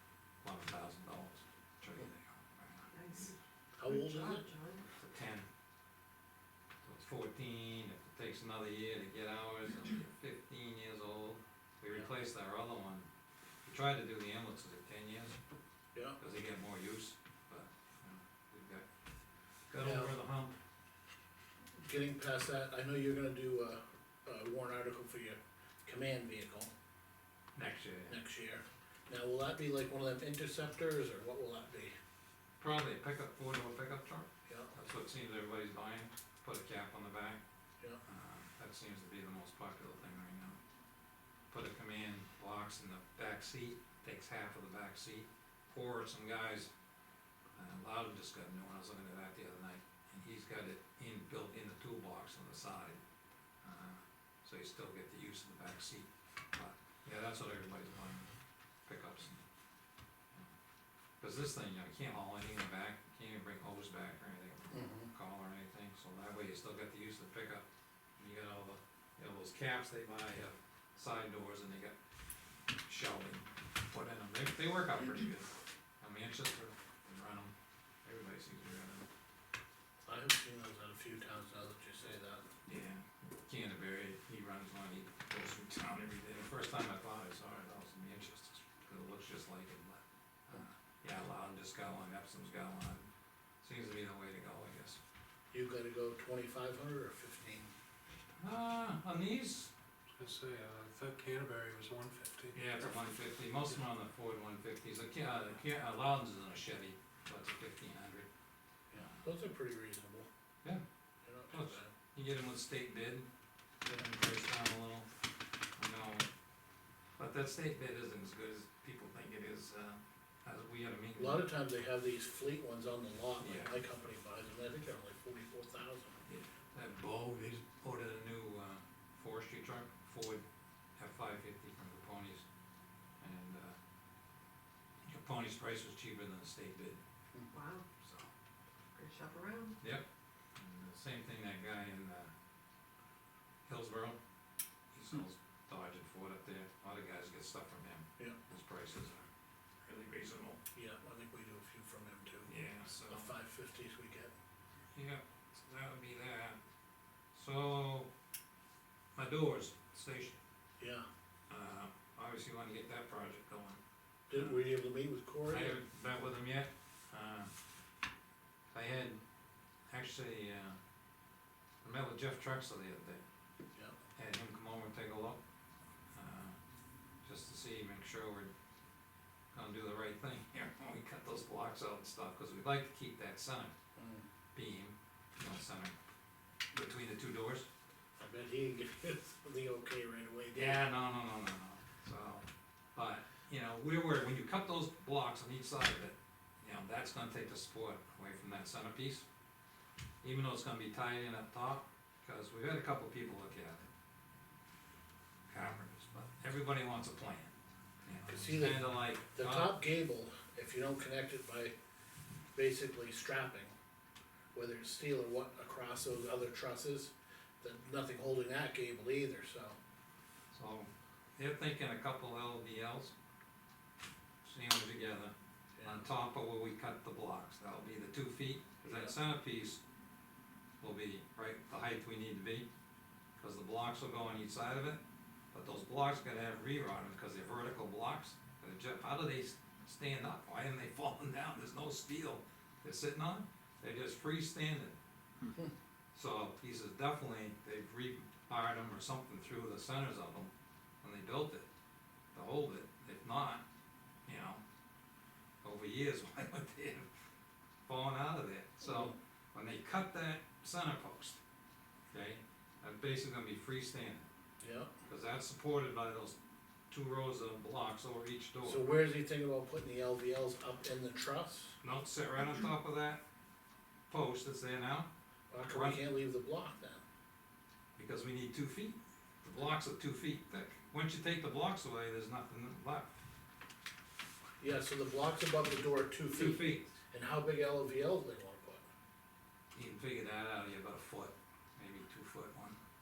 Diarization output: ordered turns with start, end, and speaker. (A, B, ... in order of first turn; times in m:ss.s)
0:00.4-0:03.4 A
0:03.0-0:03.3 B
0:03.8-0:04.5 C
0:03.9-0:04.9 B
0:04.9-0:05.5 A
0:06.8-0:13.1 A
0:13.6-0:15.4 A
0:16.2-0:18.8 A
0:19.7-0:20.6 A
0:19.8-0:20.1 C
0:21.8-0:26.7 C
0:27.6-0:28.2 A
0:28.1-0:31.9 C
0:32.6-0:37.4 A
0:34.5-0:34.7 C
0:38.0-0:40.6 A
0:41.5-0:46.7 A
0:47.6-0:53.0 A
0:53.6-0:58.3 A
0:58.9-0:59.4 A
1:01.2-1:07.6 A
1:04.7-1:05.1 C
1:08.2-1:12.0 A
1:12.9-1:17.5 A
1:18.0-1:19.1 A
1:20.1-1:22.5 C
1:22.7-1:33.1 A
1:33.6-1:35.0 A
1:35.5-1:37.7 C
1:38.4-1:39.7 A
1:40.2-1:42.6 D
1:42.5-1:48.3 A
1:48.9-1:50.3 C
1:49.0-1:49.2 A
1:51.2-1:51.9 C
1:51.5-1:53.3 A
1:53.8-1:55.1 A
1:55.8-1:56.3 A
1:57.2-2:01.4 A
2:01.2-2:06.2 C
2:03.4-2:03.8 A
2:06.3-2:10.4 A
2:11.0-2:12.4 A
2:13.2-2:13.8 A
2:15.1-2:17.0 A
2:17.5-2:17.8 B
2:18.0-2:18.3 A
2:18.9-2:19.8 B
2:20.6-2:22.3 A
2:23.7-2:24.2 A
2:24.9-2:29.3 A
2:29.8-2:30.6 A
2:30.7-2:32.5 C
2:32.5-2:33.3 A
2:33.0-2:34.3 C
2:35.0-2:36.6 A
2:37.3-2:38.1 A
2:39.2-2:40.4 A
2:40.8-2:41.0 C
2:41.5-2:43.8 A
2:44.3-2:45.8 C
2:45.4-2:47.5 A
2:48.7-2:49.2 A
2:49.9-2:50.8 A
2:51.8-2:53.2 A
2:54.2-2:55.4 A
2:56.1-2:56.6 A
2:57.2-2:58.5 A
2:59.5-3:03.7 A
3:04.0-3:04.2 C
3:04.6-3:06.0 A
3:06.7-3:07.7 A
3:08.2-3:10.8 C
3:10.5-3:19.2 A
3:20.2-3:23.9 A
3:25.5-3:27.5 A
3:28.0-3:29.8 A
3:28.3-3:31.7 C
3:32.6-3:33.7 C
3:34.5-3:39.8 C
3:40.5-3:43.1 A
3:44.4-3:49.8 A
3:45.8-3:46.0 C
3:48.8-3:49.1 C
3:50.8-3:52.7 A
3:53.4-3:55.0 A
3:55.5-4:05.0 A
4:05.4-4:05.7 C
4:06.1-4:10.5 A
4:11.0-4:11.7 A
4:12.3-4:13.6 A
4:14.3-4:14.6 A
4:15.6-4:17.1 A
4:17.9-4:21.4 A
4:22.1-4:24.3 A
4:24.6-4:24.9 C
4:25.1-4:26.4 A
4:26.9-4:28.9 A
4:28.6-4:31.8 C
4:31.8-4:33.2 A
4:34.1-4:35.1 A
4:35.5-4:37.0 C
4:35.6-4:36.0 A
4:38.0-4:43.2 A
4:44.6-4:48.8 C
4:46.3-4:47.0 A
4:49.7-4:52.8 A